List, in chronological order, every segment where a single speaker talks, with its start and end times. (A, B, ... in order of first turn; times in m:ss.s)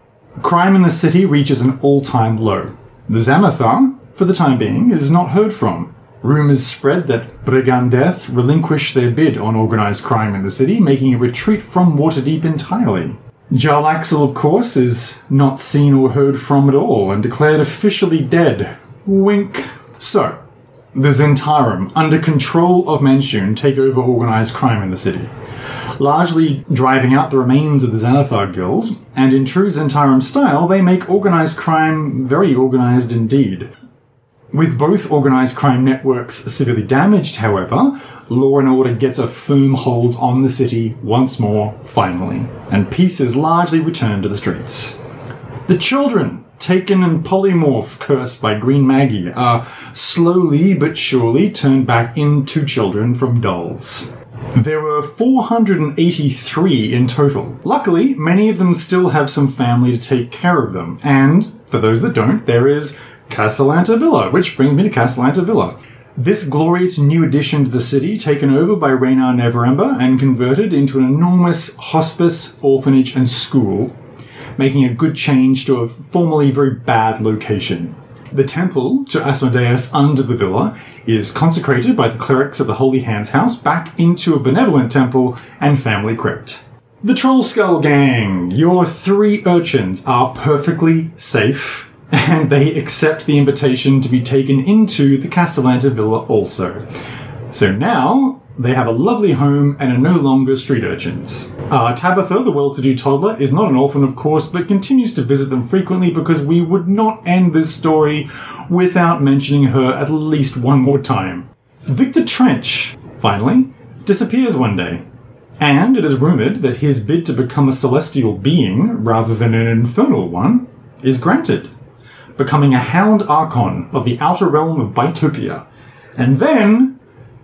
0:00.4-0:20.4 A
0:20.9-0:25.3 A
0:26.0-0:33.7 A
0:34.5-0:45.0 A
0:45.7-1:14.0 A
1:14.6-1:36.9 A
1:37.5-1:55.0 A
1:55.6-2:01.7 A
2:02.4-2:05.6 A
2:06.2-2:07.0 A